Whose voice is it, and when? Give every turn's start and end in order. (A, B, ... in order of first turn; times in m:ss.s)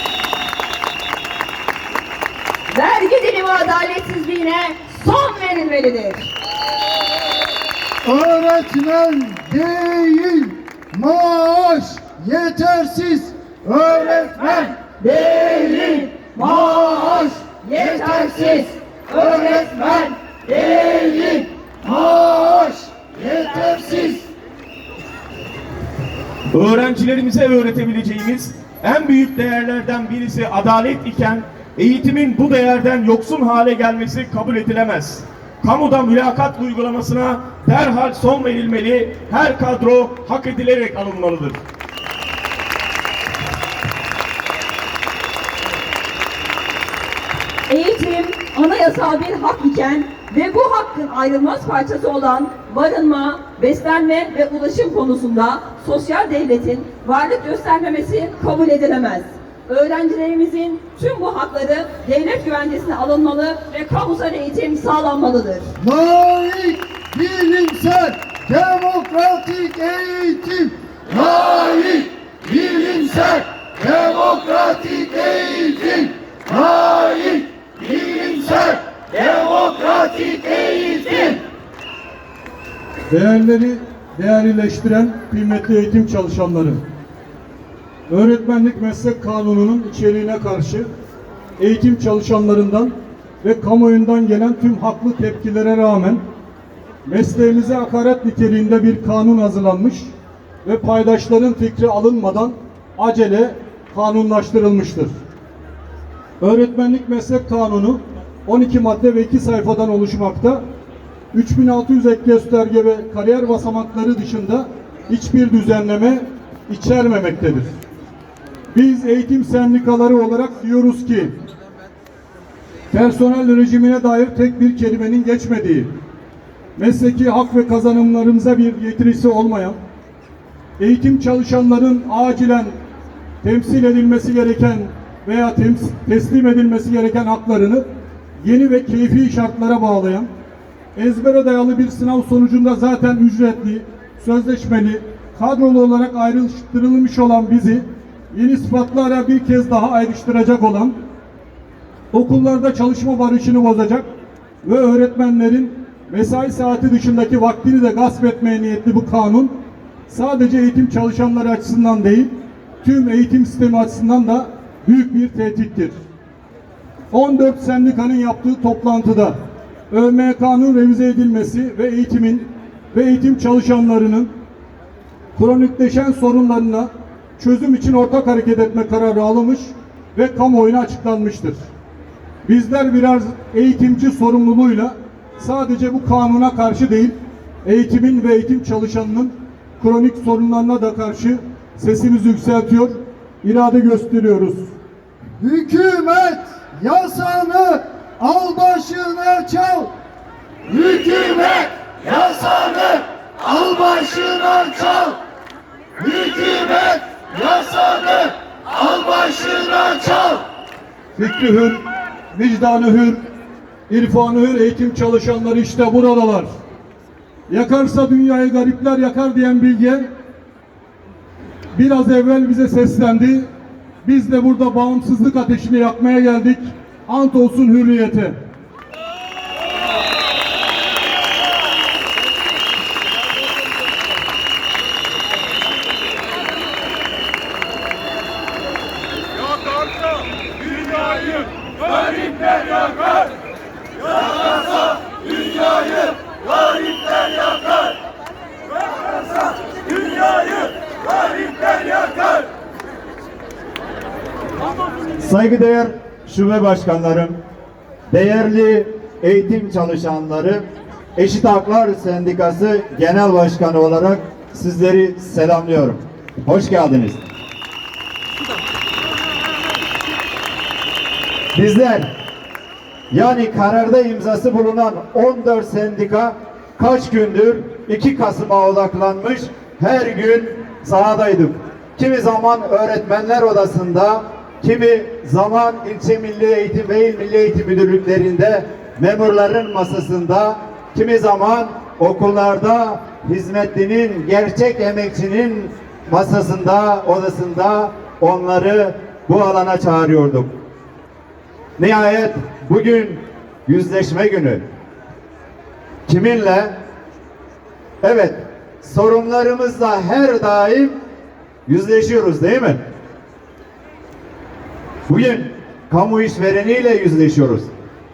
0:02.7-0:06.2 A
0:08.0-0:14.9 B
0:14.8-0:21.5 A
0:16.7-0:17.3 B
0:21.8-0:24.3 B
0:22.4-0:22.7 A
0:26.5-0:41.6 C
0:47.7-1:05.7 A
1:05.8-1:21.4 B
1:23.1-1:26.8 D
1:28.1-1:30.9 D
1:31.6-1:36.2 D
1:37.1-1:40.1 D
1:40.6-1:45.1 D
1:46.4-1:50.6 D
1:51.3-1:57.7 D
1:58.7-2:01.4 D
2:02.9-2:05.9 D
2:06.8-2:09.8 D
2:10.8-2:12.7 D
2:13.4-2:17.9 D
2:18.4-2:20.3 D
2:21.0-2:31.0 D
2:32.1-2:34.1 D
2:34.6-2:39.5 D
2:40.1-2:42.3 D
2:42.8-2:45.9 D
2:47.1-2:49.4 D
2:49.9-2:54.3 D
2:55.4-3:01.6 D
3:02.4-3:14.7 D
3:15.4-3:19.9 B
3:20.7-3:25.2 B
3:26.0-3:30.4 B
3:31.2-3:31.8 D
3:32.3-3:33.2 D
3:33.9-3:36.5 D
3:37.5-3:40.1 D
3:41.7-3:43.5 D
3:44.0-3:48.4 D
4:15.2-4:17.4 E
4:18.1-4:20.6 E
4:21.2-4:27.2 E
4:31.6-4:32.1 E
4:33.1-5:00.5 E
5:01.8-5:04.6 E
5:06.1-5:06.8 E
5:08.0-5:11.0 E
5:11.7-5:12.8 E
5:15.1-5:17.7 E